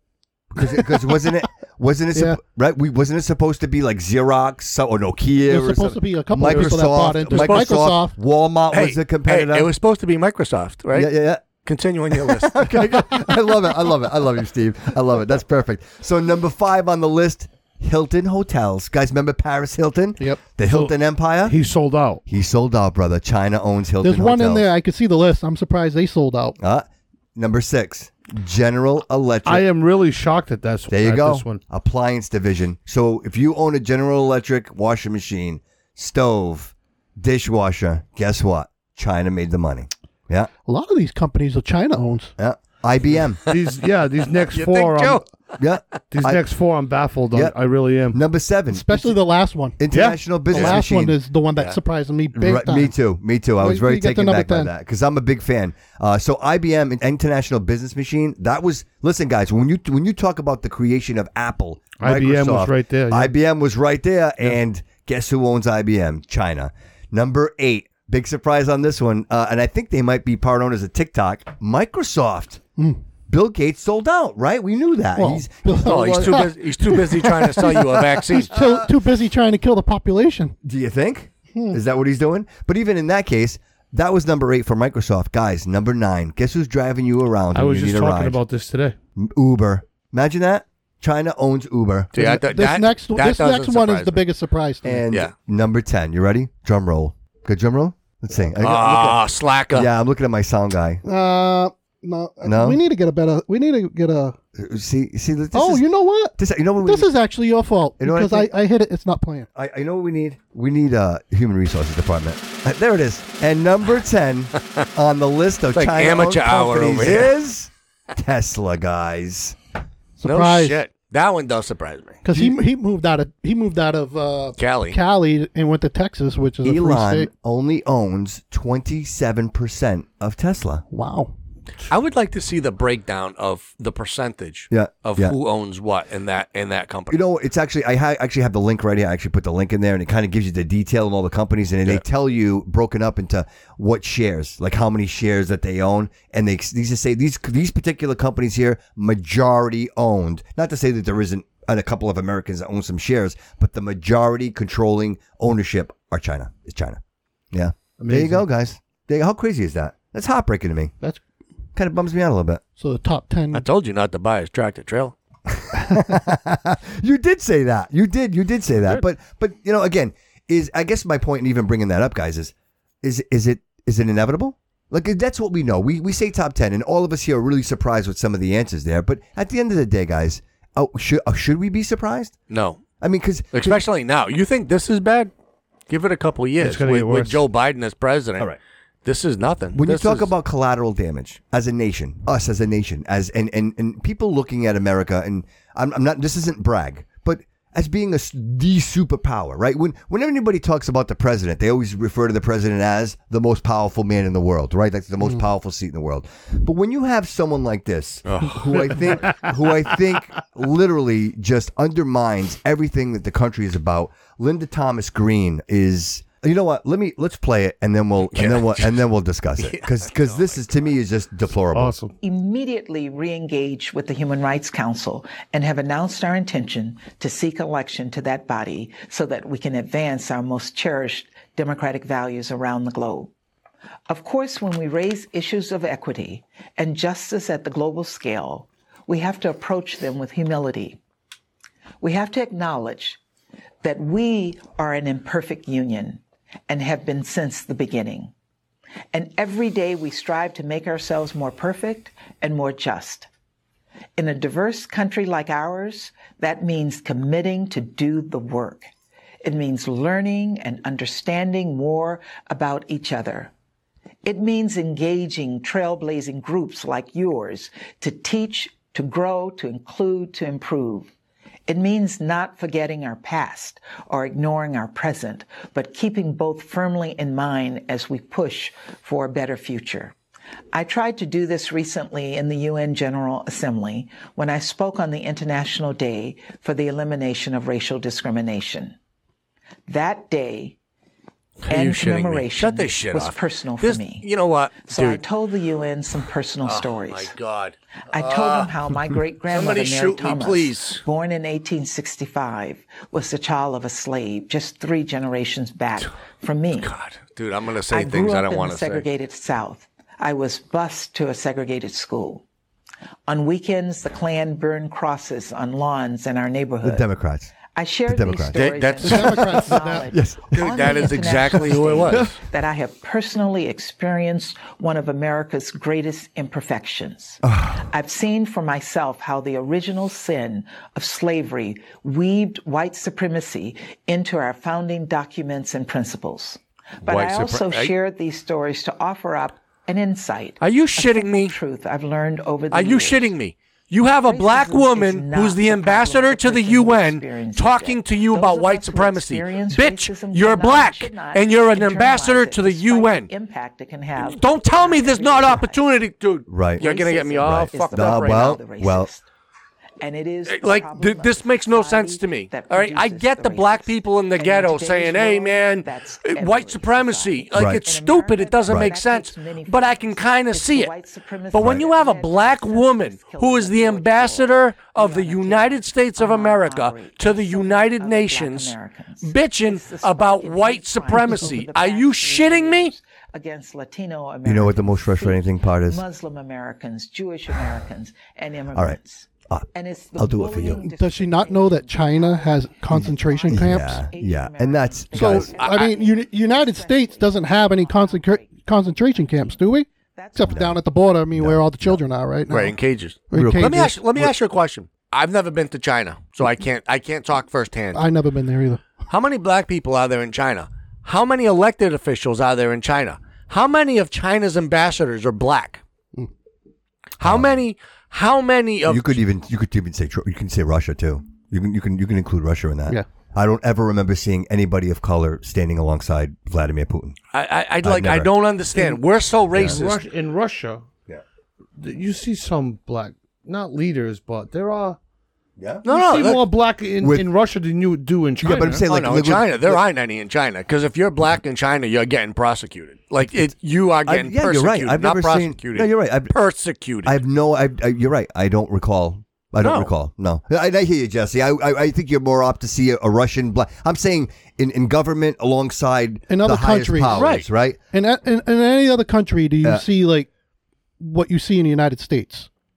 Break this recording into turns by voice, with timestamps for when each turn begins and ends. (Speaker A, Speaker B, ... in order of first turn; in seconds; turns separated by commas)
Speaker A: 0.5-9.7, Speaker B: 0.6-1.2, Speaker B: 2.1-2.4, Speaker B: 5.4-8.2, Speaker C: 7.3-7.7, Speaker C: 8.7-12.6, Speaker A: 10.9-11.4, Speaker A: 12.1-21.6, Speaker D: 20.6-22.2, Speaker A: 22.2-24.7, Speaker B: 24.0-26.6, Speaker A: 26.6-29.6, Speaker D: 29.4-31.6, Speaker A: 30.9-40.5, Speaker B: 40.6-42.3, Speaker A: 42.4-43.4, Speaker D: 43.5-45.2, Speaker C: 44.3-45.6, Speaker A: 45.6-46.4, Speaker D: 46.1-48.2, Speaker A: 48.1-49.1, Speaker B: 48.7-53.0, Speaker A: 49.8-51.2, Speaker D: 49.9-50.2, Speaker C: 50.5-50.8, Speaker A: 52.3-72.6, Speaker B: 53.6-54.7, Speaker D: 62.0-63.3, Speaker B: 72.8-73.0, Speaker A: 73.3-76.4, Speaker B: 75.1-80.5, Speaker C: 75.8-78.6, Speaker A: 80.6-88.4, Speaker B: 81.5-81.8, Speaker D: 87.5-89.0, Speaker A: 89.2-92.1, Speaker C: 92.1-94.2, Speaker B: 92.1-95.0, Speaker A: 94.8-101.0, Speaker C: 98.6-99.9, Speaker B: 101.0-104.4, Speaker A: 102.4-102.8, Speaker A: 104.5-105.8, Speaker B: 105.5-109.5, Speaker A: 106.4-107.1, Speaker A: 108.0-108.5, Speaker A: 109.5-119.5, Speaker C: 114.6-114.8, Speaker C: 115.7-117.3, Speaker B: 120.2-120.8, Speaker C: 120.2-122.2, Speaker B: 122.2-127.3, Speaker A: 122.3-122.6, Speaker C: 124.6-125.0, Speaker A: 126.6-130.8, Speaker B: 130.9-131.3, Speaker C: 131.9-137.2, Speaker A: 134.7-135.3, Speaker A: 137.1-157.0, Speaker A: 157.5-160.9, Speaker D: 158.0-158.5, Speaker A: 161.8-162.6, Speaker B: 162.8-163.7, Speaker C: 163.5-165.1, Speaker A: 165.5-182.4, Speaker C: 182.5-182.8, Speaker A: 183.0-183.8, Speaker C: 183.5-185.3, Speaker C: 185.9-188.5, Speaker D: 186.6-187.4, Speaker C: 189.0-190.3, Speaker A: 189.7-221.9, Speaker C: 208.2-209.3, Speaker C: 218.3-219.0, Speaker C: 219.6-221.0, Speaker D: 221.7-222.1, Speaker E: 222.2-233.3, Speaker E: 234.1-241.0, Speaker E: 242.0-243.2, Speaker E: 243.8-248.3, Speaker E: 249.1-253.3, Speaker E: 254.2-258.9, Speaker E: 259.4-263.5, Speaker E: 264.2-271.1, Speaker E: 271.7-280.1, Speaker E: 280.7-288.9, Speaker E: 289.9-290.8, Speaker C: 291.6-295.2, Speaker E: 291.7-294.3, Speaker E: 294.9-297.3, Speaker C: 296.6-298.7, Speaker E: 298.1-306.9, Speaker C: 299.5-301.0, Speaker C: 306.8-309.1, Speaker E: 307.9-312.4, Speaker E: 313.3-317.1, Speaker A: 316.8-317.5, Speaker E: 317.7-343.3, Speaker A: 318.1-318.7, Speaker C: 318.5-319.4, Speaker B: 319.0-320.1, Speaker A: 320.1-322.2, Speaker C: 320.5-322.4, Speaker A: 327.4-327.9, Speaker C: 337.1-337.9, Speaker C: 340.6-341.6, Speaker C: 342.7-353.3, Speaker E: 344.1-355.8, Speaker C: 354.2-358.6, Speaker A: 356.5-356.8, Speaker E: 356.8-359.3, Speaker A: 357.4-359.1, Speaker E: 360.0-400.8, Speaker C: 360.4-370.9, Speaker A: 367.5-367.8, Speaker A: 368.7-368.9, Speaker C: 371.5-382.9, Speaker A: 371.5-371.8, Speaker B: 381.2-381.5, Speaker A: 384.4-386.0, Speaker A: 390.2-390.8, Speaker B: 390.8-394.1, Speaker A: 392.9-395.5, Speaker B: 395.1-402.8, Speaker C: 395.2-395.9, Speaker A: 400.5-400.8, Speaker A: 401.3-402.0, Speaker C: 402.5-408.1, Speaker B: 403.3-403.9, Speaker A: 403.3-404.3, Speaker B: 407.9-408.8, Speaker C: 409.1-415.8, Speaker C: 417.2-419.2, Speaker A: 417.2-417.6, Speaker A: 418.9-427.2, Speaker C: 427.3-430.0, Speaker A: 427.8-428.3, Speaker A: 429.5-429.8, Speaker D: 429.6-430.9, Speaker D: 431.8-435.0, Speaker A: 435.6-435.8, Speaker C: 435.8-436.4, Speaker D: 435.8-438.9, Speaker A: 437.0-437.3, Speaker A: 438.4-439.8, Speaker C: 438.5-447.2, Speaker A: 444.0-446.3, Speaker A: 447.0-457.8, Speaker C: 449.6-449.9, Speaker B: 456.3-457.2, Speaker C: 457.1-457.4, Speaker B: 457.9-460.3, Speaker B: 461.0-462.5